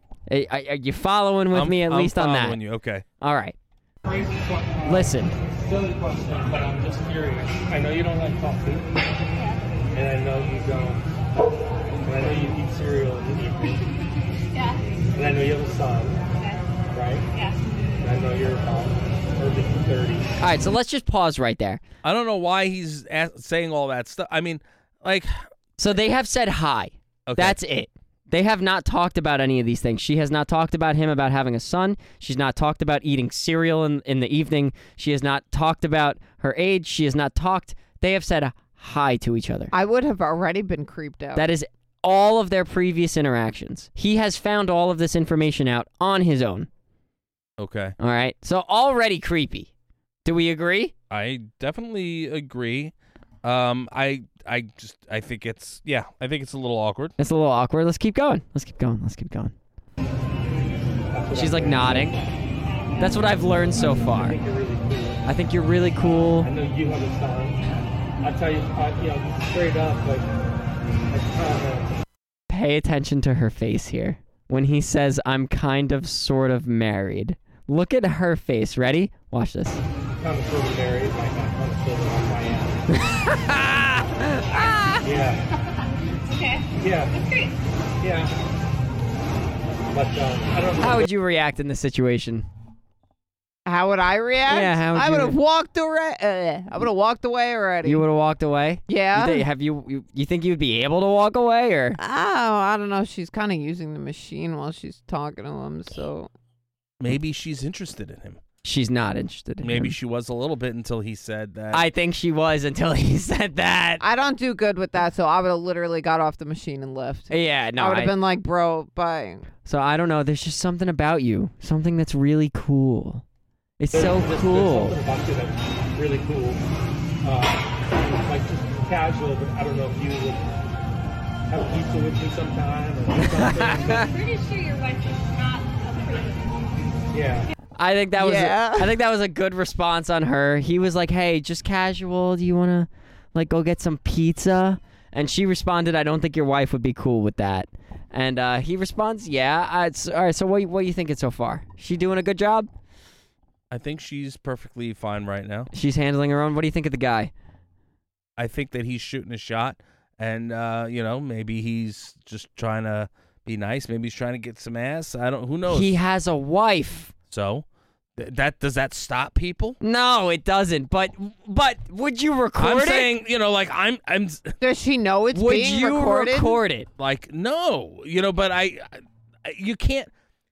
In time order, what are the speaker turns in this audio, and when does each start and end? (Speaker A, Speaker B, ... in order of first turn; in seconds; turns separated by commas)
Speaker A: 0.3-2.6, Speaker B: 1.5-3.0, Speaker A: 3.2-3.5, Speaker A: 4.8-5.3, Speaker C: 5.7-8.9, Speaker D: 9.3-9.6, Speaker C: 9.9-11.1, Speaker C: 12.0-14.1, Speaker D: 14.5-14.8, Speaker C: 15.1-16.2, Speaker D: 16.4-16.7, Speaker C: 16.9-17.3, Speaker D: 17.3-17.6, Speaker C: 18.0-20.3, Speaker A: 20.4-21.8, Speaker B: 22.0-25.3, Speaker A: 25.8-39.7, Speaker B: 27.3-27.6, Speaker E: 39.7-41.5, Speaker A: 41.3-46.7, Speaker B: 47.6-47.9, Speaker A: 48.0-49.7, Speaker A: 50.2-50.9, Speaker B: 51.1-57.1, Speaker A: 57.2-59.5, Speaker C: 61.1-62.4, Speaker A: 61.3-62.2, Speaker D: 62.6-63.2, Speaker A: 63.0-64.4, Speaker C: 63.7-65.2, Speaker A: 65.2-66.5, Speaker C: 66.4-67.6, Speaker C: 68.2-70.3, Speaker C: 71.1-72.0, Speaker A: 72.5-79.8, Speaker C: 80.1-83.0, Speaker A: 82.9-85.0, Speaker C: 85.0-85.5, Speaker D: 86.3-87.6, Speaker C: 86.8-87.2, Speaker C: 88.0-88.3, Speaker C: 89.9-91.1, Speaker A: 90.8-92.5, Speaker E: 93.6-98.0, Speaker A: 94.5-95.4, Speaker A: 97.8-102.0, Speaker E: 98.9-99.5, Speaker E: 102.0-106.3, Speaker B: 107.0-108.4, Speaker A: 108.6-109.9, Speaker B: 109.6-111.8, Speaker A: 111.7-114.0, Speaker E: 114.0-119.5, Speaker A: 117.3-118.2, Speaker A: 119.6-123.2, Speaker A: 123.8-125.0, Speaker C: 123.9-126.6, Speaker C: 127.2-130.5, Speaker C: 131.5-134.1, Speaker D: 133.8-136.9, Speaker C: 137.1-137.5, Speaker A: 137.8-152.7, Speaker E: 138.1-138.9, Speaker B: 153.7-155.7, Speaker A: 155.7-157.3, Speaker B: 158.4-165.9, Speaker A: 165.7-167.1, Speaker B: 167.3-167.7, Speaker B: 168.2-169.8, Speaker A: 169.8-173.1, Speaker B: 172.6-174.6, Speaker E: 174.6-176.6, Speaker A: 175.3-176.9, Speaker B: 177.0-180.1